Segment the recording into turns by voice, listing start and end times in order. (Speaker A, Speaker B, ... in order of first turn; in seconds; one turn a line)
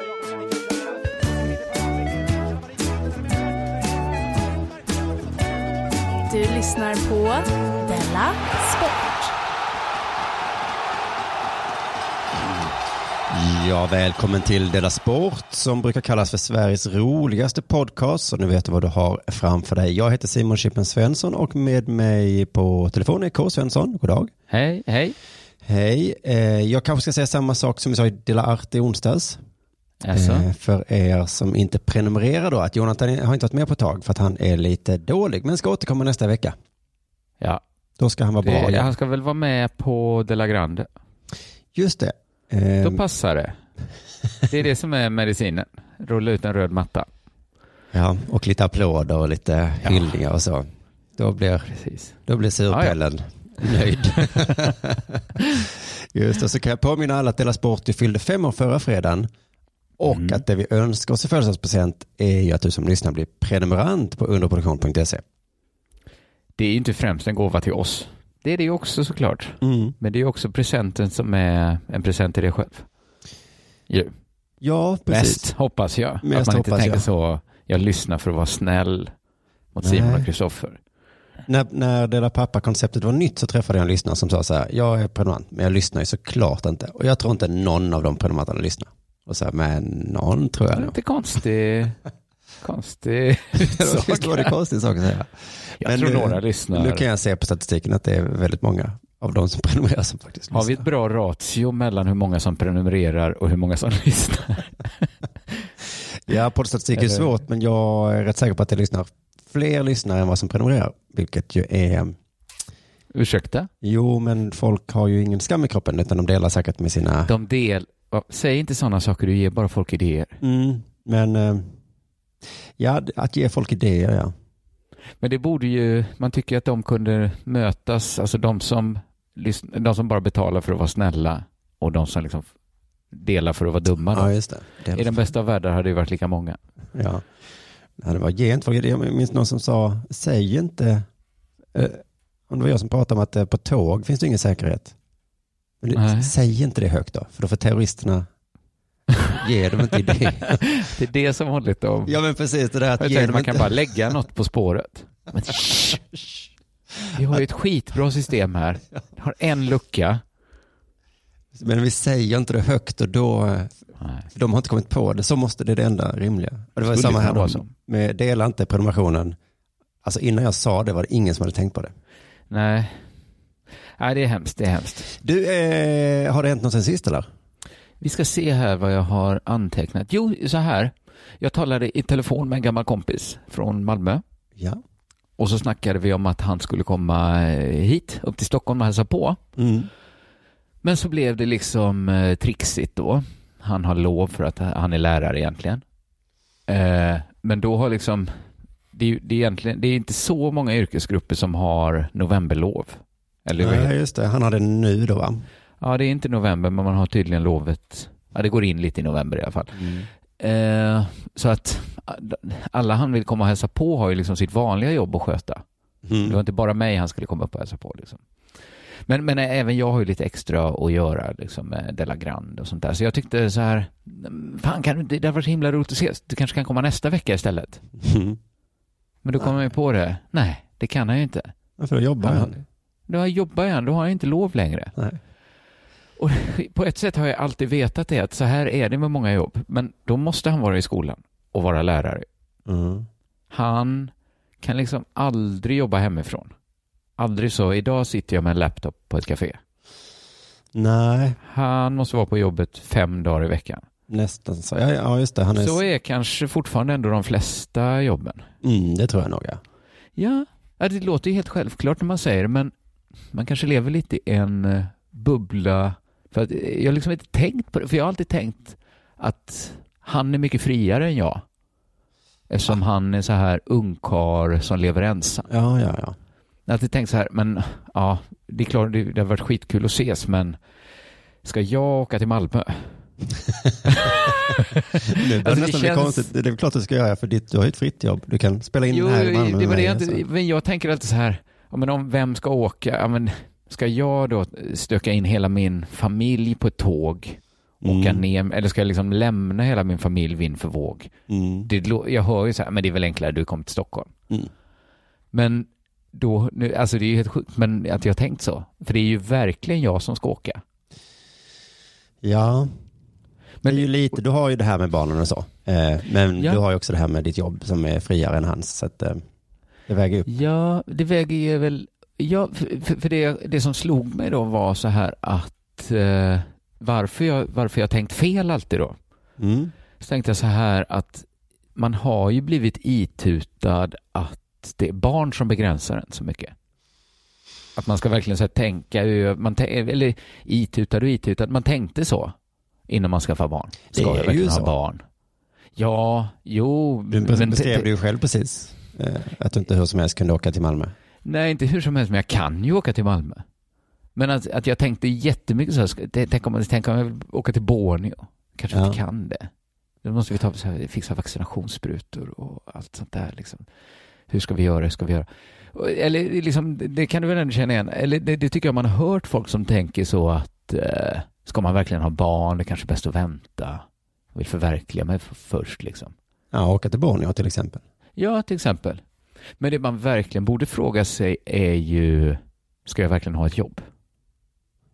Speaker A: 6.2-9.3
Speaker B: 13.3-24.3
Speaker C: 24.5-25.1
Speaker B: 25.6-29.4
Speaker C: 30.0-30.5
Speaker B: 30.1-36.5
Speaker B: 38.0-38.9
Speaker C: 38.4-40.9
Speaker B: 41.7-43.0
Speaker C: 42.8-43.5
Speaker C: 44.5-47.1
Speaker B: 47.9-51.7
Speaker C: 49.8-50.1
Speaker C: 51.7-52.1
Speaker B: 52.2-59.3
Speaker C: 52.7-53.0
Speaker C: 54.2-54.6
Speaker B: 60.0-65.2
Speaker C: 60.1-60.4
Speaker C: 66.6-72.8
Speaker B: 69.6-69.9
Speaker B: 74.6-75.5
Speaker C: 75.1-79.1
Speaker B: 76.2-77.1
Speaker C: 79.7-80.8
Speaker B: 79.8-80.3
Speaker B: 81.5-91.0
Speaker C: 90.7-92.0
Speaker C: 92.6-94.5
Speaker B: 93.6-100.8
Speaker C: 95.8-97.0
Speaker C: 100.5-104.9
Speaker B: 106.2-112.1
Speaker C: 107.0-107.3
Speaker C: 113.1-113.7
Speaker B: 113.8-117.3
Speaker C: 117.3-120.4
Speaker B: 120.4-121.7
Speaker B: 122.8-124.3
Speaker C: 125.2-132.5
Speaker C: 133.1-134.3
Speaker B: 134.1-135.3
Speaker C: 134.9-136.6
Speaker B: 136.9-137.2
Speaker B: 138.0-141.1
Speaker B: 141.7-144.9
Speaker B: 145.8-148.2
Speaker C: 145.9-146.3
Speaker B: 149.3-150.6
Speaker C: 150.2-152.2
Speaker B: 152.1-154.1
Speaker C: 153.0-156.0
Speaker B: 157.0-157.4
Speaker C: 157.1-160.2
Speaker B: 161.5-163.7
Speaker C: 164.0-164.3
Speaker B: 164.3-169.3
Speaker C: 166.8-167.7
Speaker B: 170.0-171.9
Speaker C: 172.5-173.0
Speaker C: 174.0-175.1
Speaker B: 175.1-177.2
Speaker C: 178.0-184.2
Speaker C: 185.4-189.4
Speaker B: 189.6-189.9
Speaker C: 190.8-195.8
Speaker C: 196.7-198.3
Speaker C: 198.9-203.9
Speaker B: 203.6-205.4
Speaker C: 205.8-215.6
Speaker B: 209.8-210.1
Speaker B: 216.1-216.4
Speaker C: 216.2-218.2
Speaker C: 219.1-227.8
Speaker B: 228.0-228.4
Speaker C: 229.2-231.5
Speaker B: 231.8-232.6
Speaker C: 232.2-234.9
Speaker C: 236.2-242.2
Speaker B: 242.7-243.1
Speaker C: 243.5-246.5
Speaker C: 247.2-249.6
Speaker B: 250.7-251.4
Speaker C: 251.5-253.8
Speaker B: 254.1-255.8
Speaker C: 255.5-258.4
Speaker B: 258.6-259.6
Speaker C: 260.2-262.7
Speaker C: 263.3-271.4
Speaker C: 272.5-275.5
Speaker B: 275.5-276.1
Speaker C: 276.7-280.6
Speaker C: 281.4-282.9
Speaker C: 283.9-286.3
Speaker B: 285.1-290.2
Speaker C: 288.9-301.1
Speaker B: 297.8-298.2
Speaker B: 301.3-301.7
Speaker C: 301.6-304.1
Speaker C: 305.3-310.6
Speaker B: 312.2-312.7
Speaker C: 313.6-313.9
Speaker B: 313.6-319.2
Speaker B: 319.9-320.3
Speaker C: 320.3-328.9
Speaker B: 329.4-329.7
Speaker C: 330.0-336.5
Speaker C: 337.8-342.3
Speaker C: 342.9-345.0
Speaker B: 343.9-344.7
Speaker C: 345.8-347.9
Speaker B: 347.1-350.9
Speaker C: 351.2-353.4
Speaker C: 354.1-359.5
Speaker B: 358.7-359.0
Speaker C: 360.0-363.6
Speaker C: 364.3-373.8
Speaker C: 374.3-376.1
Speaker B: 376.5-377.8
Speaker C: 378.2-379.0
Speaker C: 379.6-383.8